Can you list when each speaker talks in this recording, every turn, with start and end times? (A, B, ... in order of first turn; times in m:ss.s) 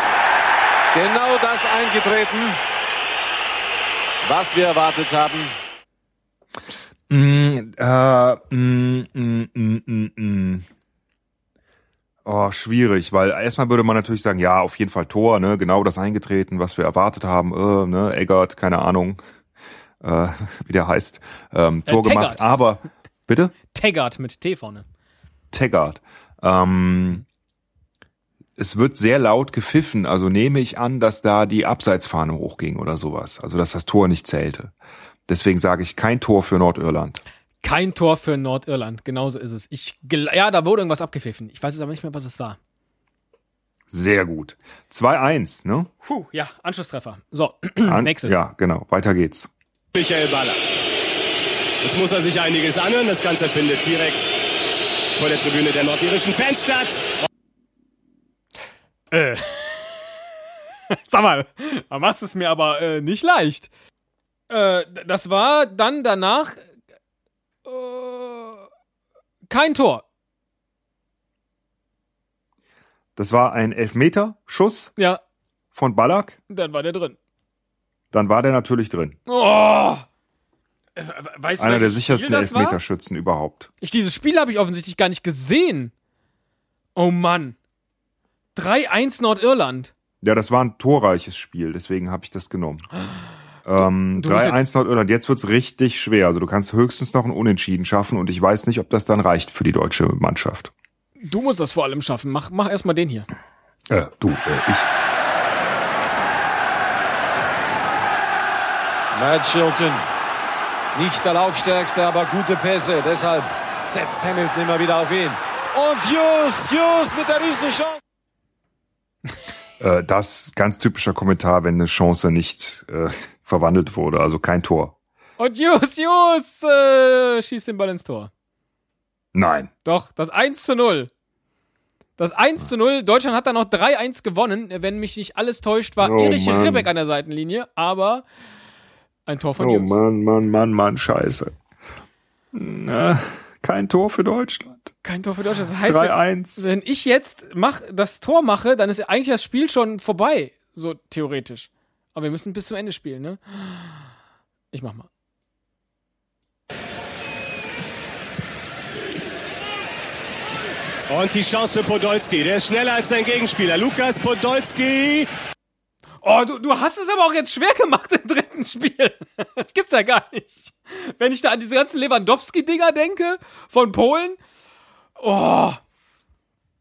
0:00.9-0:02.6 A
0:04.2-0:05.6 A
0:07.1-0:10.7 B
0:12.2-0:19.2 B
0:20.0-0:23.6 B
0:21.9-0:22.5 C
0:23.7-0:24.9 C
0:25.5-0:27.2 B
0:28.6-0:34.8 B
0:35.3-0:37.2 B
0:37.6-0:42.6 C
0:43.9-0:45.9 B
0:46.0-0:48.4 C
0:47.8-0:49.5 B
0:49.9-0:50.6 D
0:51.8-0:54.2 D
0:55.2-0:57.1 D
0:59.1-1:00.1 C
1:00.9-1:03.7 C
1:04.5-1:06.6 C
1:07.6-1:08.6 C
1:09.5-1:10.0 C
1:13.2-1:14.9 B
1:15.8-1:16.4 B
1:16.5-1:17.2 C
1:18.1-1:19.2 B
1:19.3-1:20.0 C
1:21.0-1:22.8 C
1:21.6-1:23.7 B
1:23.8-1:25.9 C
1:27.0-1:27.6 C
1:28.6-1:29.9 C
1:30.2-1:32.9 B
1:33.6-1:40.7 B
1:33.8-1:34.7 C
1:41.2-1:43.3 C
1:43.9-1:44.9 B
1:49.1-1:50.1 A
1:51.0-1:58.0 A
1:59.8-2:05.0 B
2:05.4-2:08.3 C
2:09.3-2:09.7 B
2:09.8-2:11.1 C
2:12.2-2:18.2 C
2:16.0-2:16.9 B
2:19.3-2:20.0 C
2:19.6-2:21.5 B
2:22.5-2:24.9 B
2:25.0-2:34.0 C
2:25.8-2:26.6 B
2:34.7-2:35.1 C
2:41.1-2:45.3 D
2:46.2-2:54.4 C
2:55.2-2:55.8 C